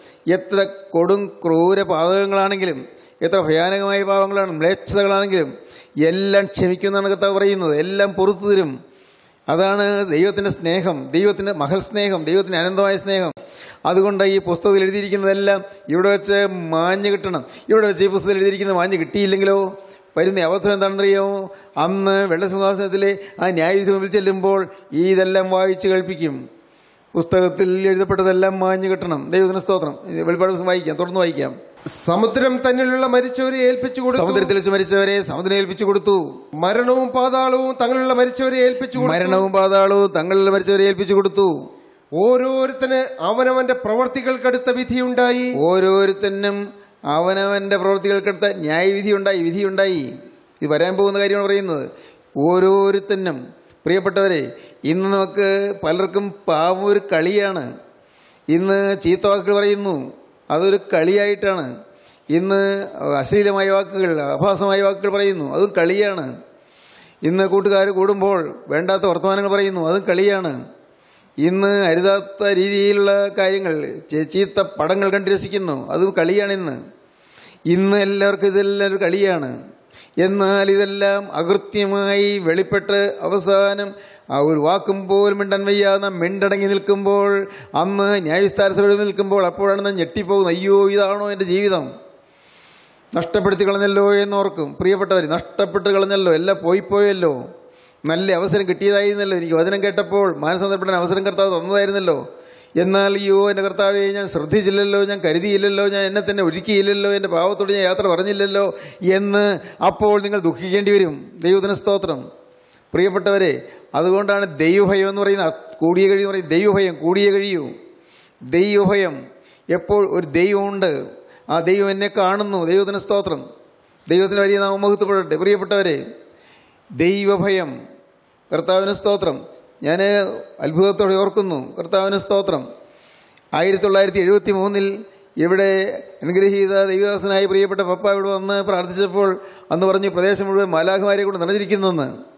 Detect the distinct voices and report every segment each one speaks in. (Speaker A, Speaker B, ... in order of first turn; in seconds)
Speaker A: 0.3-5.5, 6.0-8.7, 9.5-13.3, 13.9-26.4, 27.1-31.6, 34.1-36.2, 39.0-41.5, 45.6-46.6, 47.1-50.1, 50.6-51.9, 52.4-57.7, 58.5-60.0, 60.5-61.7, 62.3-66.3, 67.2-70.6, 71.4-76.8, 77.7-79.5, 80.2-91.9, 93.2-97.4, 98.0-102.2, 102.8-112.2, 112.9-117.7, 118.5-119.2, 119.7-120.9, 121.5-123.4, 124.1-126.0, 127.0-127.7, 128.5-132.7, 133.6-142.1
Speaker B: 31.9-34.5, 36.6-39.5, 42.2-45.5